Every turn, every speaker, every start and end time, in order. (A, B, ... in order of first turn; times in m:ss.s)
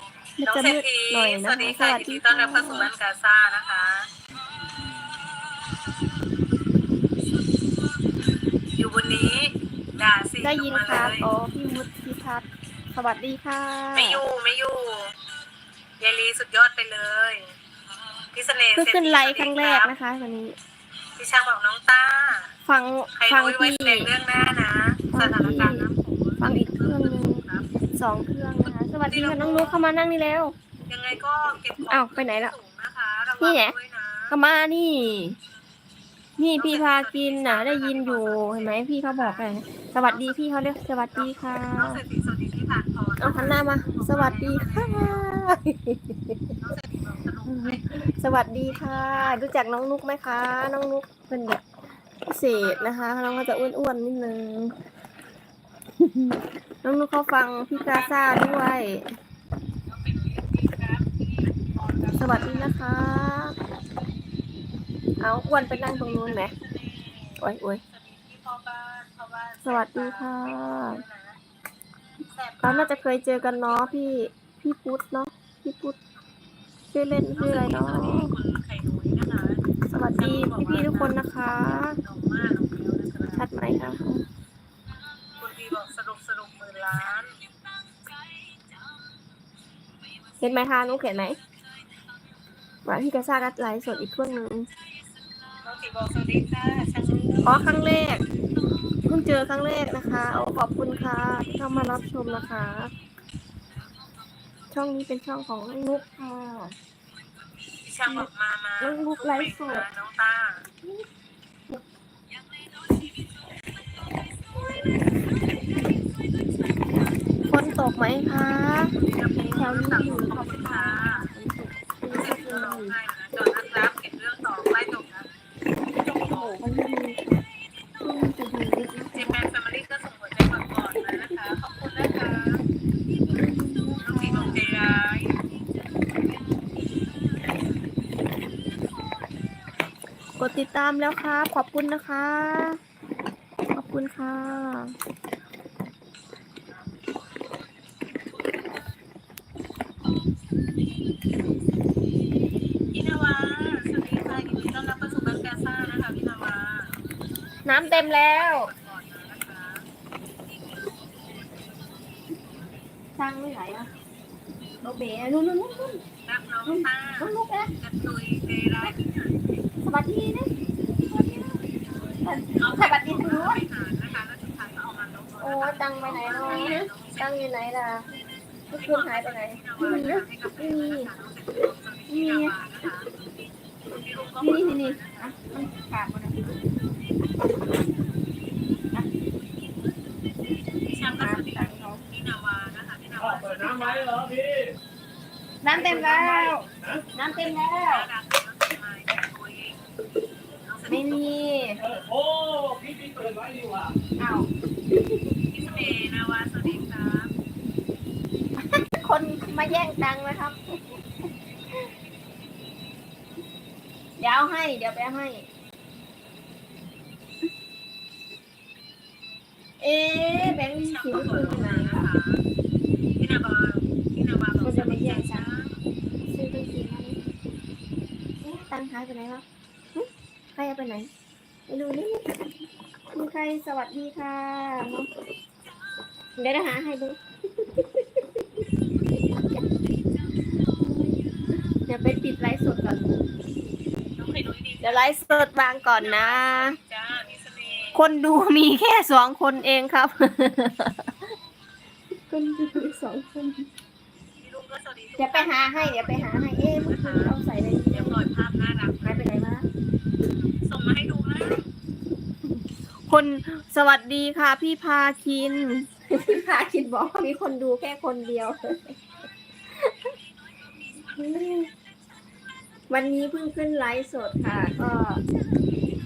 0:00.4-0:02.9 A
0:00.4-0:04.1 B
0:08.7-0:11.3 B
0:10.4-0:14.2 A
0:13.9-0:15.1 B
0:16.0-0:17.5 B
0:18.3-0:19.9 B
0:18.8-0:20.6 A
0:21.2-0:22.5 B
0:22.7-0:24.1 A
0:23.2-0:27.8 B
0:25.1-0:25.9 A
0:26.4-0:27.4 A
0:27.9-0:30.6 A
0:28.6-0:29.8 B
0:30.9-0:34.4 B
0:31.8-0:32.6 A
0:33.4-0:33.8 A
0:34.3-0:35.4 A
0:36.4-0:42.0 A
0:36.6-0:40.4 B
0:41.1-0:45.2 B
0:43.2-0:46.6 A
0:46.6-0:48.1 B
0:47.5-0:51.6 A
0:48.7-0:49.4 B
0:52.2-0:54.8 A
0:52.5-0:53.7 B
0:56.0-0:59.1 A
0:57.7-0:58.7 B
0:59.9-1:02.7 B
1:02.2-1:03.6 A
1:05.2-1:06.5 A
1:05.5-1:11.4 B
1:07.4-1:07.8 A
1:09.6-1:11.0 A
1:12.2-1:14.0 B
1:12.6-1:16.0 A
1:16.9-1:18.3 A
1:17.4-1:21.2 B
1:19.9-1:22.0 A
1:22.0-1:23.4 B
1:23.4-1:24.2 A
1:25.4-1:27.4 B
1:30.4-1:31.4 A
1:32.9-1:34.7 A
1:35.6-1:37.7 B
1:37.4-1:38.2 A
1:39.0-1:42.9 A
1:44.7-1:46.8 A
1:47.8-1:50.7 B
1:48.8-1:49.9 A
1:57.5-1:58.9 A
1:58.9-2:01.3 B
1:59.5-2:02.9 A
2:02.1-2:05.3 B
2:05.9-2:06.6 B
2:06.2-2:07.2 A
2:08.0-2:09.4 A
2:09.1-2:12.6 B
2:13.3-2:14.6 A
2:14.0-2:15.4 B
2:20.4-2:22.8 A
2:23.7-2:25.0 A
2:32.9-2:37.0 B
2:37.6-2:38.7 A
2:37.8-2:39.8 B
2:43.2-2:43.9 A
2:44.8-2:46.0 A
2:46.2-2:49.4 B
2:46.6-2:47.7 A
2:49.8-2:50.5 A
2:51.1-2:51.6 A
2:52.2-2:53.6 A
2:52.6-2:57.4 B
2:55.4-2:58.1 A
2:58.7-3:01.1 A
2:58.7-3:03.1 B
3:02.1-3:02.6 A
3:03.9-3:05.4 B
3:04.4-3:06.6 A
3:10.8-3:14.2 B
3:11.1-3:12.0 A
3:13.2-3:14.8 C
3:15.6-3:18.1 A
3:15.8-3:17.1 C
3:15.9-3:16.5 B
3:17.1-3:19.8 B
3:20.6-3:21.4 B
3:20.9-3:21.8 A
3:21.8-3:24.0 C
3:24.2-3:25.2 A
3:25.5-3:27.3 B
3:28.6-3:30.8 A
3:34.2-3:35.4 A
3:39.8-3:42.1 A
3:40.5-3:42.4 B
3:43.2-3:45.8 B
3:44.6-3:45.4 A
3:46.3-3:47.2 A
3:48.4-3:51.1 A
3:51.7-3:52.4 A
3:53.1-3:55.1 A
3:56.4-3:58.2 A
4:01.8-4:03.2 A
4:04.2-4:05.2 B
4:04.8-4:06.8 A
4:06.0-4:08.0 B
4:07.9-4:11.2 A
4:12.3-4:13.7 A
4:14.4-4:17.4 B
4:15.2-4:18.2 A
4:17.9-4:19.3 B
4:19.0-4:19.7 A
4:20.6-4:21.7 B
4:23.1-4:29.0 A
4:29.7-4:30.2 A
4:31.0-4:31.7 A
4:32.9-4:35.2 A